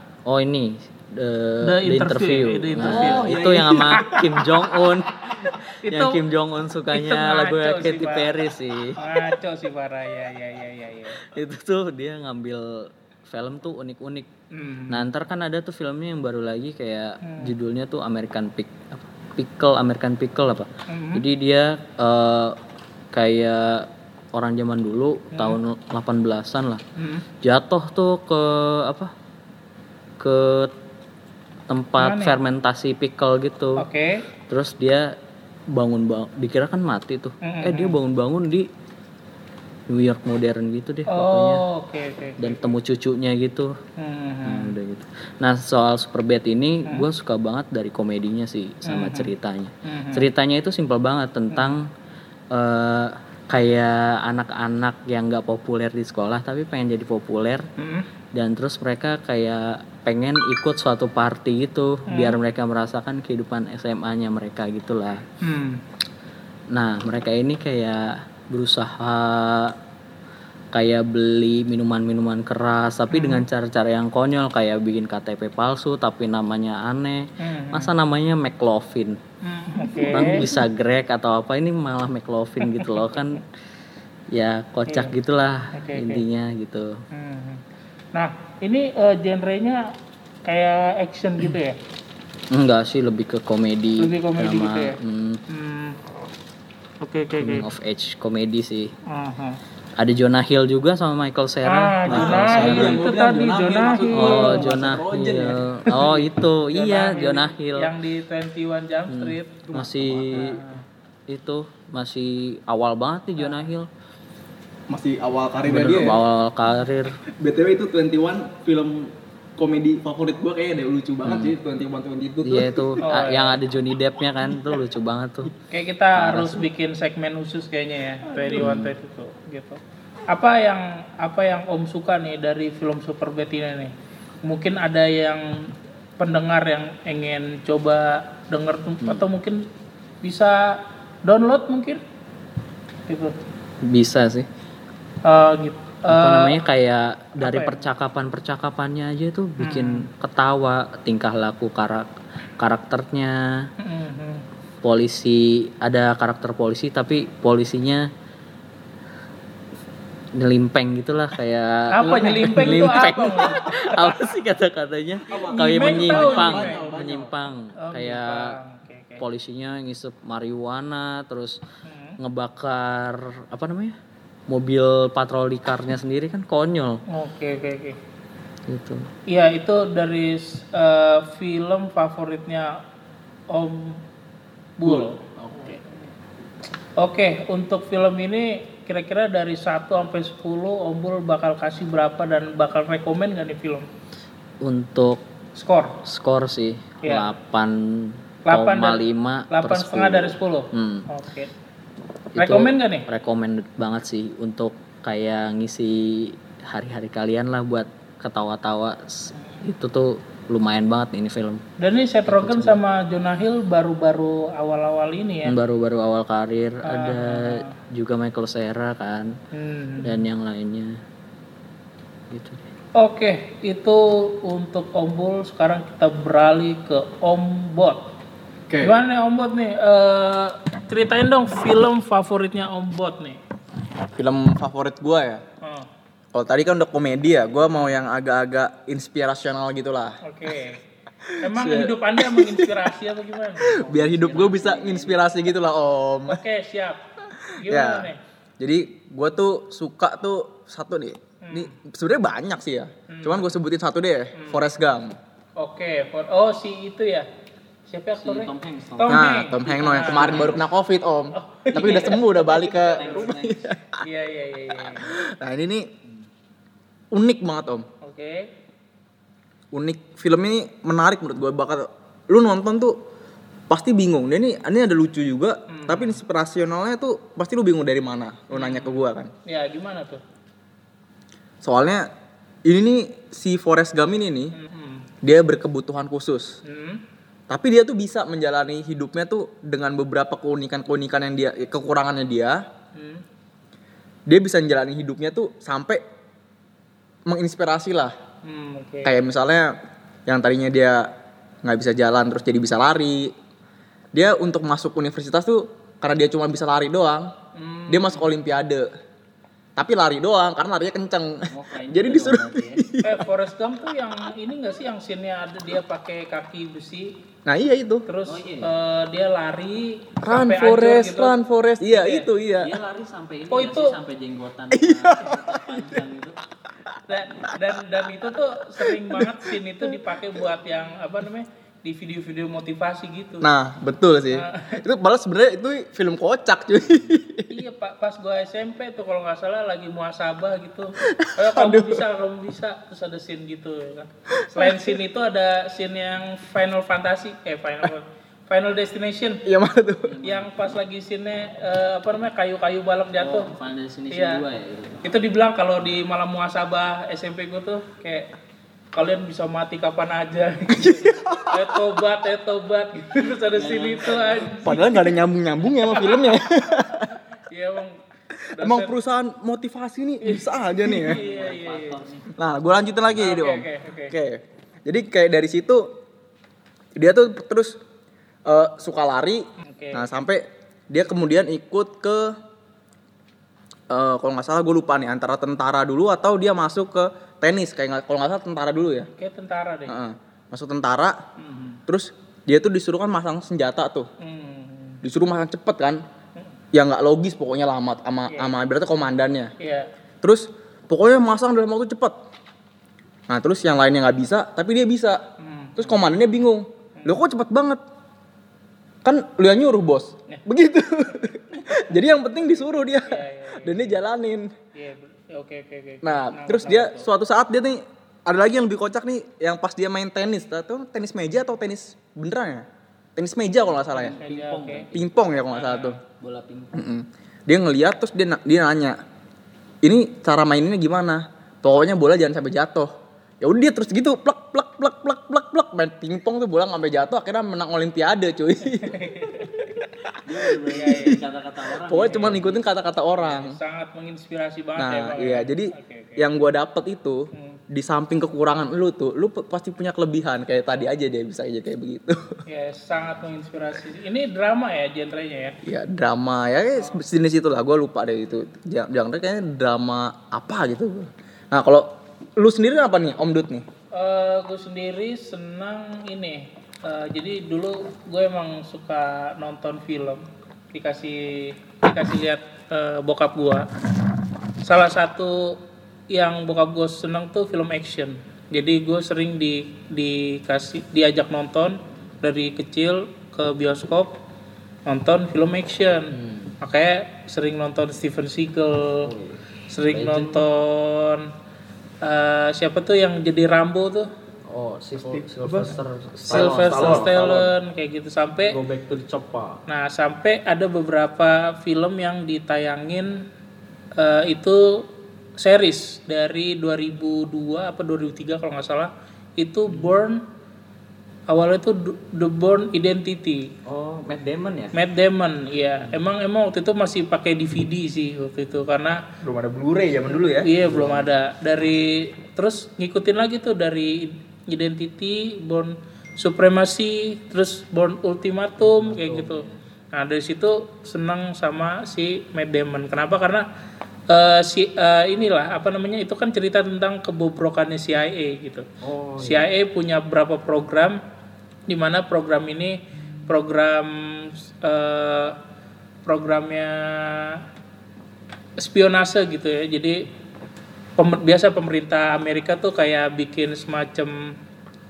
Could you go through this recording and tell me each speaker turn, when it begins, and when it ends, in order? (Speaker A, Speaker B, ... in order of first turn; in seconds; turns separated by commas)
Speaker A: 0.3-9.0, Speaker B: 1.6-3.3, Speaker C: 2.8-4.3, Speaker B: 5.8-6.2, Speaker B: 6.9-8.3, Speaker B: 9.0-11.2, Speaker A: 11.1-14.3, Speaker B: 14.5-15.1, Speaker A: 14.9-22.6, Speaker B: 17.2-17.5, Speaker B: 20.9-21.2, Speaker A: 23.1-26.8, Speaker B: 25.3-25.6, Speaker B: 27.0-27.2, Speaker A: 27.4-29.1, Speaker A: 30.2-30.7, Speaker A: 31.7-33.8, Speaker B: 32.0-32.4, Speaker B: 33.8-34.2, Speaker A: 34.5-35.1, Speaker A: 35.7-38.7, Speaker B: 37.4-38.0, Speaker A: 39.9-41.7, Speaker B: 41.1-42.7, Speaker A: 42.4-43.8, Speaker B: 44.0-44.7, Speaker A: 44.5-51.9, Speaker B: 48.8-49.3, Speaker B: 49.9-50.3, Speaker B: 51.5-51.8, Speaker A: 52.5-57.7, Speaker B: 57.8-58.1, Speaker A: 58.3-65.2, Speaker B: 62.1-62.4, Speaker B: 65.4-65.8, Speaker A: 66.7-69.8, Speaker A: 70.7-79.2, Speaker B: 73.1-73.5, Speaker B: 77.4-77.9, Speaker B: 79.4-80.5, Speaker A: 79.9-83.4, Speaker B: 82.6-82.9, Speaker A: 84.3-87.0, Speaker B: 84.9-85.1, Speaker B: 85.8-86.2, Speaker B: 87.1-87.6, Speaker B: 88.1-89.9, Speaker B: 90.5-91.8, Speaker A: 92.5-95.4, Speaker B: 94.0-95.0, Speaker B: 95.5-96.0, Speaker B: 97.0-97.7, Speaker A: 97.4-98.9, Speaker B: 99.1-99.6, Speaker A: 100.0-103.0, Speaker B: 101.7-104.7, Speaker C: 102.1-106.1, Speaker A: 104.1-107.9, Speaker B: 105.9-109.6, Speaker A: 109.1-110.6, Speaker C: 109.7-110.6, Speaker B: 110.3-110.8, Speaker A: 111.3-113.9, Speaker C: 114.9-116.2, Speaker A: 115.7-117.1, Speaker C: 117.4-123.0, Speaker A: 121.2-121.5, Speaker A: 122.5-125.5, Speaker B: 123.0-123.6, Speaker B: 125.7-129.8, Speaker A: 126.2-126.7, Speaker C: 128.3-128.7, Speaker A: 128.6-128.9, Speaker B: 130.3-133.9, Speaker B: 134.4-139.6, Speaker B: 140.2-142.0, Speaker B: 143.1-143.3, Speaker A: 143.8-144.5, Speaker B: 145.2-146.6, Speaker A: 146.1-153.7, Speaker B: 147.4-147.8, Speaker B: 149.6-150.1, Speaker B: 153.8-154.4, Speaker A: 154.8-158.1, Speaker A: 160.4-168.6, Speaker B: 161.9-164.2, Speaker C: 162.0-163.0, Speaker C: 165.3-167.3, Speaker B: 165.3-166.8, Speaker B: 167.8-169.2, Speaker A: 169.2-171.6, Speaker B: 171.8-172.2, Speaker A: 172.2-173.9, Speaker A: 174.5-177.0, Speaker B: 177.1-178.0, Speaker A: 178.7-179.1, Speaker B: 179.3-182.8, Speaker B: 183.5-184.0, Speaker B: 184.8-185.8, Speaker C: 185.4-185.8, Speaker B: 187.0-193.9, Speaker A: 194.6-195.2, Speaker B: 195.6-196.0, Speaker A: 196.1-201.1, Speaker B: 197.0-197.3, Speaker B: 198.5-201.5, Speaker A: 202.3-211.6, Speaker B: 202.4-203.1, Speaker B: 211.8-215.6, Speaker A: 212.2-212.8, Speaker A: 215.4-219.3, Speaker B: 216.8-217.7, Speaker B: 219.5-220.2, Speaker A: 220.0-221.0, Speaker A: 222.3-222.7, Speaker B: 223.0-228.0, Speaker C: 228.7-228.9, Speaker B: 228.8-233.4, Speaker C: 234.2-235.4, Speaker B: 235.6-235.9, Speaker C: 236.3-240.2, Speaker B: 240.2-240.8, Speaker C: 241.3-242.8, Speaker B: 241.4-243.8, Speaker C: 243.7-246.4, Speaker A: 243.7-245.3, Speaker B: 246.3-247.0, Speaker B: 247.6-248.2, Speaker C: 247.7-248.1, Speaker C: 248.6-255.2, Speaker B: 251.4-251.7, Speaker B: 253.1-253.5, Speaker B: 254.3-254.6, Speaker B: 255.6-257.3, Speaker B: 257.9-260.6, Speaker A: 258.2-259.2, Speaker C: 259.1-264.0, Speaker A: 260.1-260.6, Speaker B: 261.3-262.4, Speaker A: 261.7-263.7, Speaker B: 263.0-263.3, Speaker B: 264.0-265.1, Speaker C: 264.8-265.9, Speaker C: 267.1-267.9, Speaker B: 268.0-268.5, Speaker C: 269.7-272.9, Speaker C: 273.7-279.3, Speaker B: 275.7-276.2, Speaker B: 278.5-280.2, Speaker C: 281.6-282.1, Speaker C: 282.7-284.5, Speaker B: 284.5-285.1, Speaker C: 285.2-286.6, Speaker B: 286.6-287.0, Speaker C: 287.5-292.6, Speaker B: 292.9-293.2, Speaker C: 294.3-296.0, Speaker C: 297.3-298.1, Speaker B: 298.4-299.2, Speaker C: 299.0-299.7, Speaker C: 300.3-301.1, Speaker C: 301.6-303.3, Speaker C: 304.1-307.3, Speaker B: 307.6-308.3, Speaker C: 307.9-308.9, Speaker C: 309.8-313.2, Speaker A: 311.5-312.8, Speaker B: 313.0-317.1, Speaker C: 317.5-318.1, Speaker B: 318.1-322.3, Speaker A: 318.2-318.7, Speaker C: 320.2-322.7, Speaker A: 322.6-326.4, Speaker B: 323.5-324.0, Speaker C: 324.7-325.9, Speaker B: 327.1-333.5, Speaker C: 328.8-330.0, Speaker C: 333.4-337.5, Speaker B: 334.3-334.8, Speaker B: 337.5-349.4, Speaker C: 341.1-342.0, Speaker C: 344.4-344.9, Speaker C: 349.5-350.2, Speaker A: 350.1-350.8, Speaker B: 350.2-353.5, Speaker A: 353.2-355.1, Speaker B: 354.1-354.4, Speaker B: 355.0-358.3, Speaker B: 358.9-364.9, Speaker C: 360.7-361.5, Speaker A: 363.5-364.6, Speaker C: 364.6-367.1, Speaker B: 365.8-366.4, Speaker B: 367.4-367.9, Speaker B: 368.6-368.9, Speaker C: 368.6-371.2, Speaker B: 370.2-372.1, Speaker A: 370.9-372.3, Speaker C: 372.4-375.9, Speaker B: 373.1-374.1, Speaker C: 377.0-377.7, Speaker C: 378.5-379.4, Speaker B: 379.7-380.1, Speaker C: 379.9-382.3, Speaker C: 383.9-389.1, Speaker B: 389.1-390.0, Speaker C: 389.9-391.1, Speaker B: 391.4-391.8, Speaker C: 391.9-394.1, Speaker B: 394.2-395.0, Speaker C: 395.0-396.0, Speaker C: 396.7-399.5, Speaker B: 399.6-399.9, Speaker C: 400.2-402.1, Speaker C: 403.3-405.2, Speaker B: 405.4-406.1, Speaker C: 405.8-407.8, Speaker C: 409.0-414.5, Speaker B: 413.1-414.0, Speaker B: 414.8-417.1, Speaker C: 416.0-422.6, Speaker C: 423.2-424.2, Speaker A: 423.8-425.1, Speaker B: 424.1-424.9, Speaker C: 424.9-426.0, Speaker B: 425.5-426.0, Speaker A: 426.2-426.8, Speaker C: 426.7-429.0, Speaker C: 429.8-432.9, Speaker C: 433.4-439.9, Speaker B: 438.8-439.6, Speaker A: 440.2-442.6, Speaker C: 440.4-441.2, Speaker B: 440.7-441.2, Speaker C: 441.8-443.6, Speaker B: 442.0-442.4, Speaker B: 443.2-446.3, Speaker C: 444.8-452.4, Speaker B: 447.3-447.6, Speaker B: 452.5-455.6, Speaker C: 455.6-463.6, Speaker B: 463.9-473.7, Speaker B: 474.6-475.6, Speaker B: 476.1-484.1, Speaker B: 484.9-489.1, Speaker A: 486.1-486.6, Speaker A: 489.0-490.4, Speaker B: 489.7-491.2, Speaker B: 492.0-494.1, Speaker A: 494.5-497.2, Speaker C: 495.0-497.5, Speaker B: 496.3-498.6, Speaker A: 498.5-499.6, Speaker B: 499.7-503.2, Speaker B: 504.0-504.6, Speaker B: 505.4-510.2, Speaker A: 509.7-510.0, Speaker B: 511.3-513.4, Speaker A: 513.7-514.8, Speaker B: 514.7-519.0, Speaker C: 519.2-520.5, Speaker B: 520.1-533.4, Speaker A: 520.6-521.1, Speaker A: 528.6-529.6, Speaker B: 534.1-538.6, Speaker A: 538.8-539.5, Speaker B: 539.2-541.0, Speaker B: 541.7-545.4, Speaker B: 546.1-547.4, Speaker B: 548.6-550.0, Speaker B: 551.0-554.3